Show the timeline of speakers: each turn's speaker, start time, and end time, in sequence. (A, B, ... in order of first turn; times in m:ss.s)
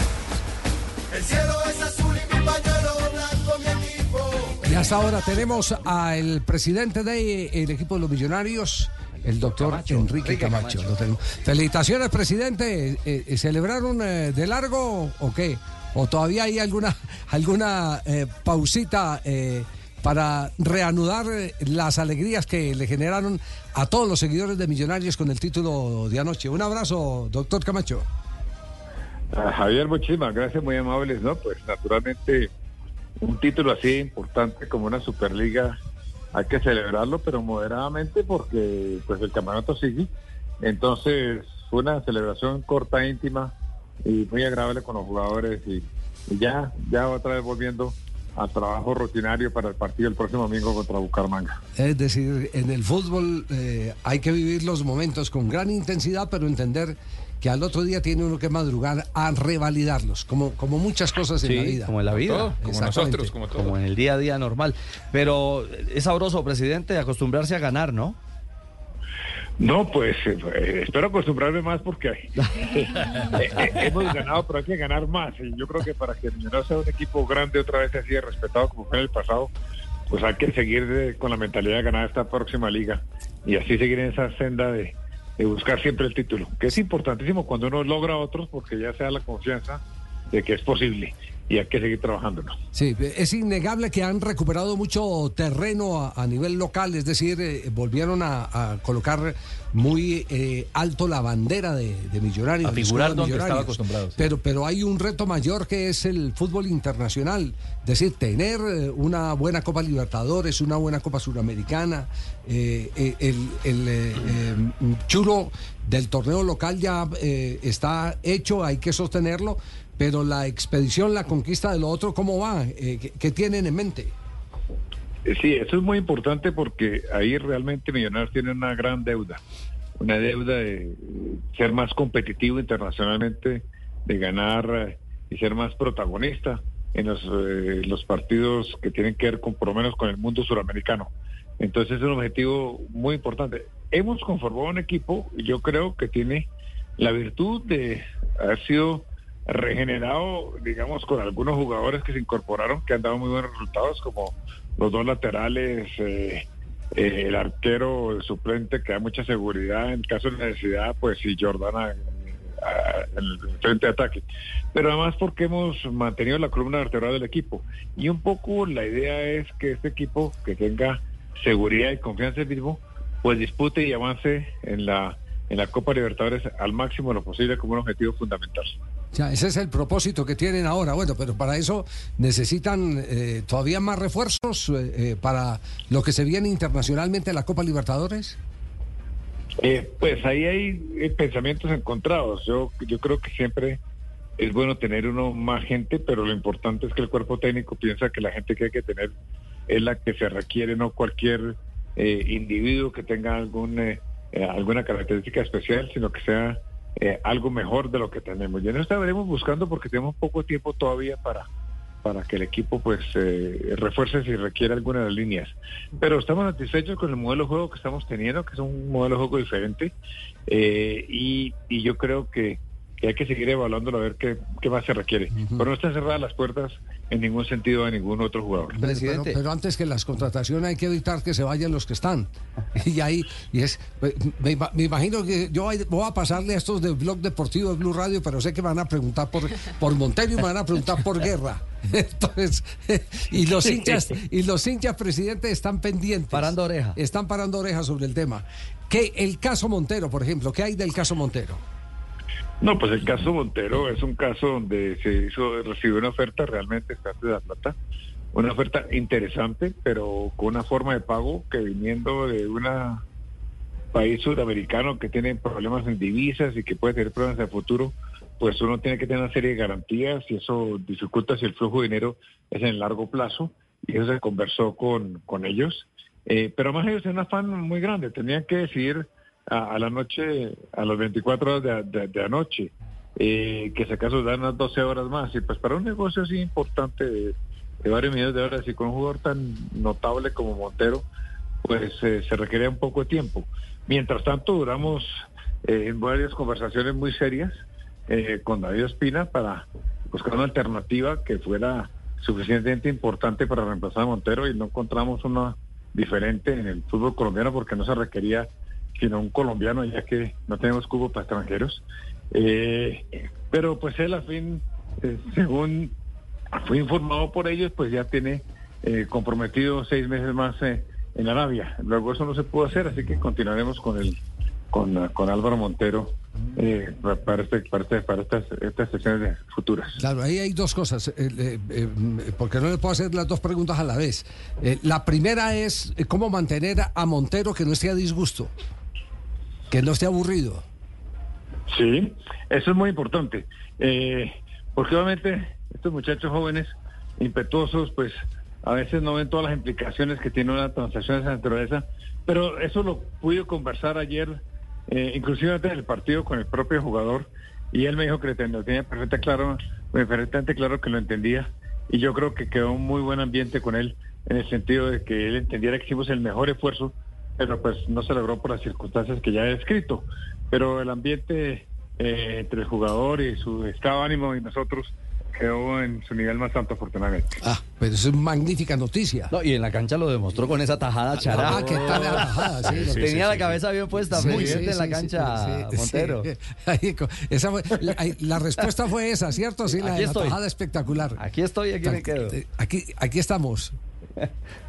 0:01.1-0:04.5 A
0:04.6-0:28.0 B
0:09.4-0:10.9 C
0:29.3-0:32.5 D
0:33.2-0:35.8 D
0:36.3-0:40.1 D
0:40.6-0:43.5 D
0:44.0-0:51.6 D
0:51.8-1:01.9 B
1:01.4-1:02.6 C
1:02.1-1:03.7 E
1:02.6-1:03.3 B
1:03.5-1:08.2 C
1:09.6-1:19.5 D
1:20.1-1:29.8 D
1:30.3-1:32.5 D
1:32.7-2:04.1 B
1:42.6-1:44.0 C
1:43.0-1:44.1 E
2:05.2-2:09.4 D
2:10.0-2:58.7 D
2:59.1-3:08.4 B
3:09.6-3:13.8 D
3:14.4-3:19.1 D
3:19.7-3:31.5 D
3:32.0-3:39.9 D
3:40.5-3:48.8 D
3:48.7-3:49.4 C
3:48.7-4:11.6 B
4:06.3-4:07.0 C
4:12.6-4:17.7 D
4:18.3-4:23.0 D
4:23.9-4:51.0 D
4:51.6-4:55.1 D
4:55.6-4:57.5 D
4:58.1-5:15.9 D
5:16.5-5:24.2 D
5:24.7-5:30.0 D
5:30.0-5:38.5 B
5:39.7-5:40.6 B
5:41.7-6:17.4 D
6:17.4-6:19.3 B
6:19.3-6:26.3 C
6:21.3-6:23.2 B
6:22.9-6:23.6 E
6:24.1-6:31.2 B
6:24.2-6:24.6 E
6:29.7-6:30.4 C
6:31.2-6:32.4 C
6:31.8-6:33.7 B